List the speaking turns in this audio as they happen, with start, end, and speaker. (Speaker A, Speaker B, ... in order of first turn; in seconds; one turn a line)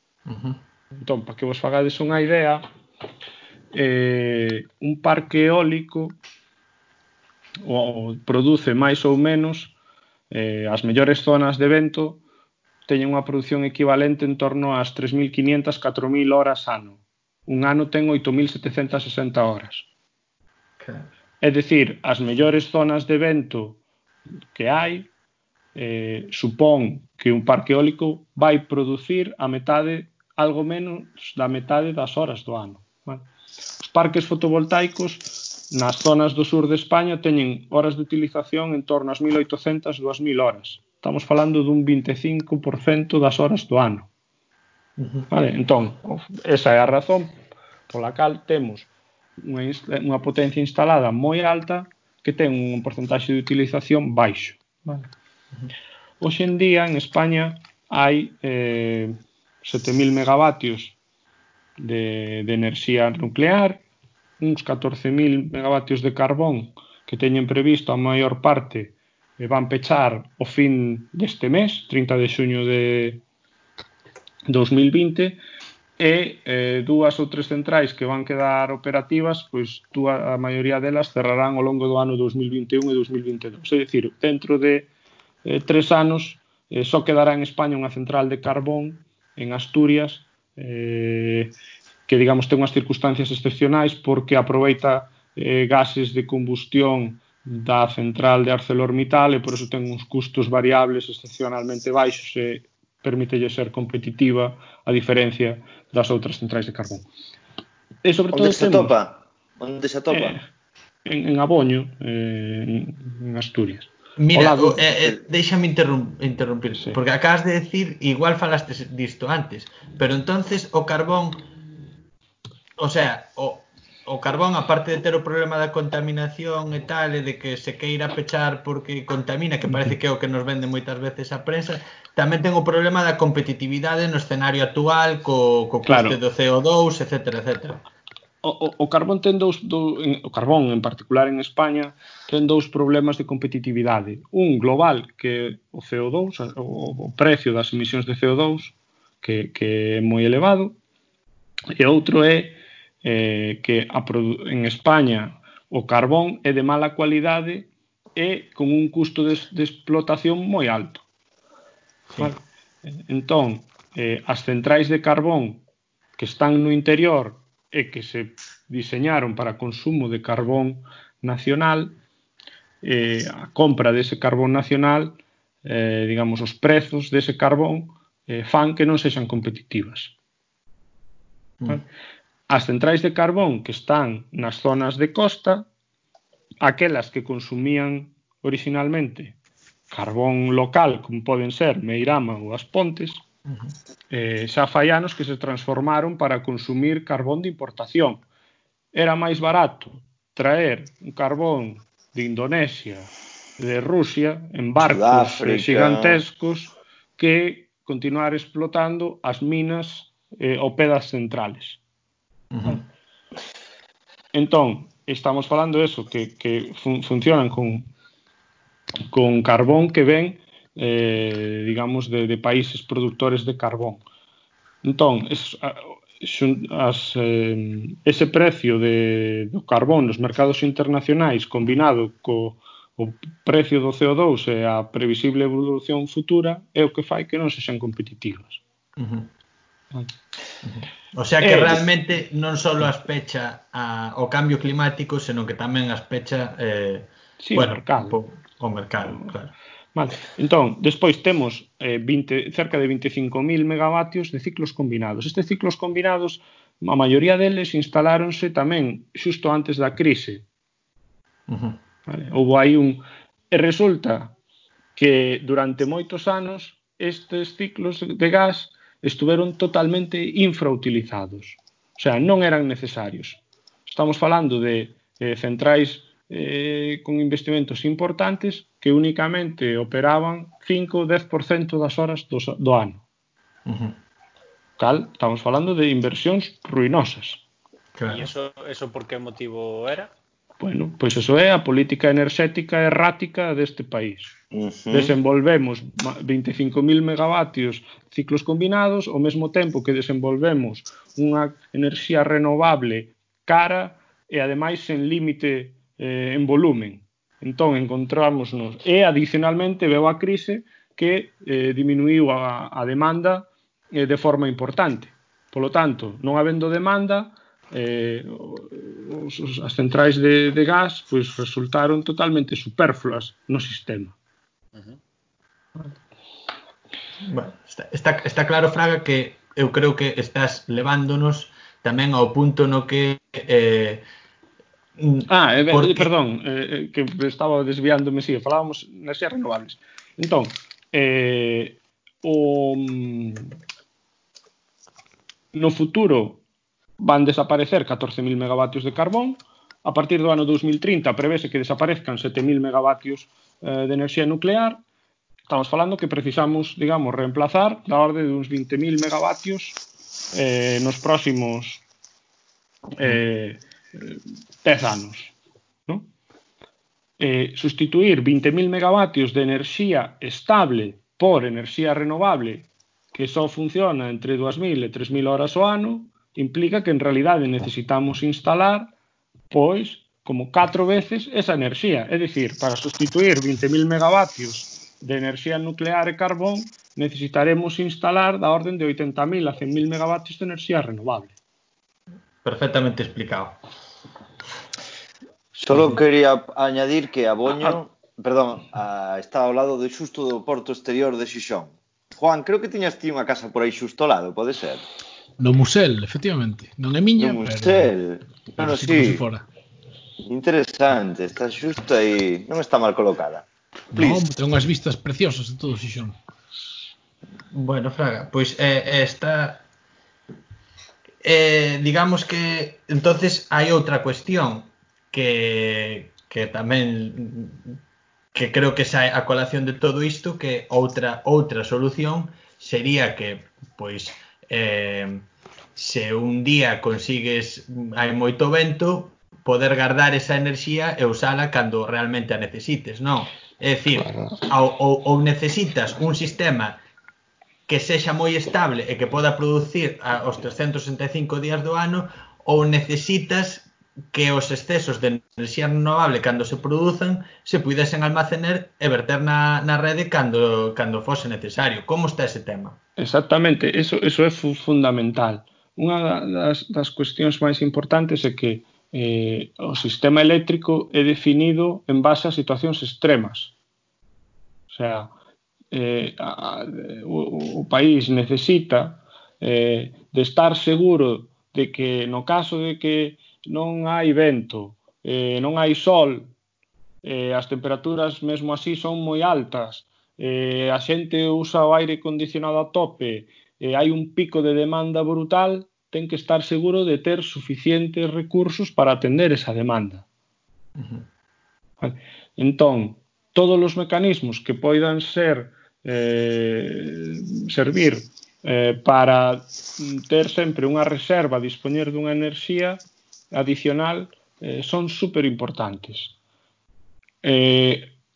Speaker A: 0.3-0.6
Speaker B: 0.9-2.6
Speaker B: 3.7-6.2
Speaker B: 7.6-9.7
Speaker B: 10.3-12.2
Speaker B: 12.9-19.9
Speaker A: 20.8-21.0
Speaker B: 21.4-23.8
Speaker B: 24.5-25.1
Speaker B: 25.7-33.3
Speaker B: 33.8-44.1
Speaker A: 45.0-45.3
Speaker B: 45.3-47.3
Speaker B: 47.9-48.9
Speaker B: 49.4-55.1
Speaker B: 56.2-61.0
Speaker B: 61.8-63.8
Speaker B: 64.4-73.2
Speaker B: 74.5-75.4
Speaker B: 76.0-84.9
Speaker B: 85.4-91.5
Speaker B: 92.1-107.0
Speaker B: 108.0-109.0
Speaker C: 108.3-110.4
Speaker B: 110.1-110.4
Speaker B: 111.0-115.2
Speaker A: 114.2-121.5
Speaker A: 122.8-137.8
Speaker B: 135.8-136.2
Speaker B: 138.4-150.8
Speaker B: 151.8-161.0
Speaker A: 162.1-162.3
Speaker B: 162.2-165.6
Speaker B: 166.2-172.0
Speaker B: 172.8-180.1
Speaker B: 182.5-185.7
Speaker B: 186.6-189.3
Speaker B: 189.9-193.2
Speaker B: 194.1-198.2
Speaker B: 198.9-211.8
Speaker C: 204.8-206.2
Speaker A: 212.5-212.8
Speaker B: 214.3-217.9
Speaker B: 219.1-224.0
Speaker B: 224.8-238.6
Speaker A: 239.0-239.3
Speaker A: 240.6-249.5
Speaker B: 241.4-241.9
Speaker B: 247.4-248.2
Speaker B: 249.9-260.4
Speaker A: 261.5-261.8
Speaker B: 262.1-264.4
Speaker B: 264.9-283.0
Speaker A: 283.6-284.0
Speaker B: 284.8-287.4
Speaker A: 287.9-288.3
Speaker D: 288.1-290.1
Speaker B: 290.6-294.4
Speaker C: 294.5-295.1
Speaker B: 294.9-324.1
Speaker A: 327.2-334.1
Speaker A: 335.0-336.1
Speaker B: 335.3-343.5
Speaker B: 345.5-346.4
Speaker B: 347.0-354.8
Speaker B: 355.5-359.8
Speaker B: 360.3-361.8
Speaker B: 363.0-365.3
Speaker B: 367.2-378.9
Speaker B: 379.5-391.3
Speaker A: 392.4-393.6
Speaker C: 395.6-404.8
Speaker A: 395.7-395.9
Speaker E: 405.4-407.9
Speaker C: 407.2-409.2
Speaker E: 408.6-409.4
Speaker C: 410.2-414.2
Speaker E: 413.9-416.1
Speaker A: 417.5-419.6
Speaker A: 421.2-427.8
Speaker A: 428.3-446.8
Speaker A: 447.7-462.8
Speaker B: 463.0-473.5
Speaker B: 474.7-475.1
Speaker B: 475.7-486.3
Speaker B: 487.0-500.1
Speaker A: 500.8-501.1
Speaker B: 501.8-516.1
Speaker B: 517.2-518.0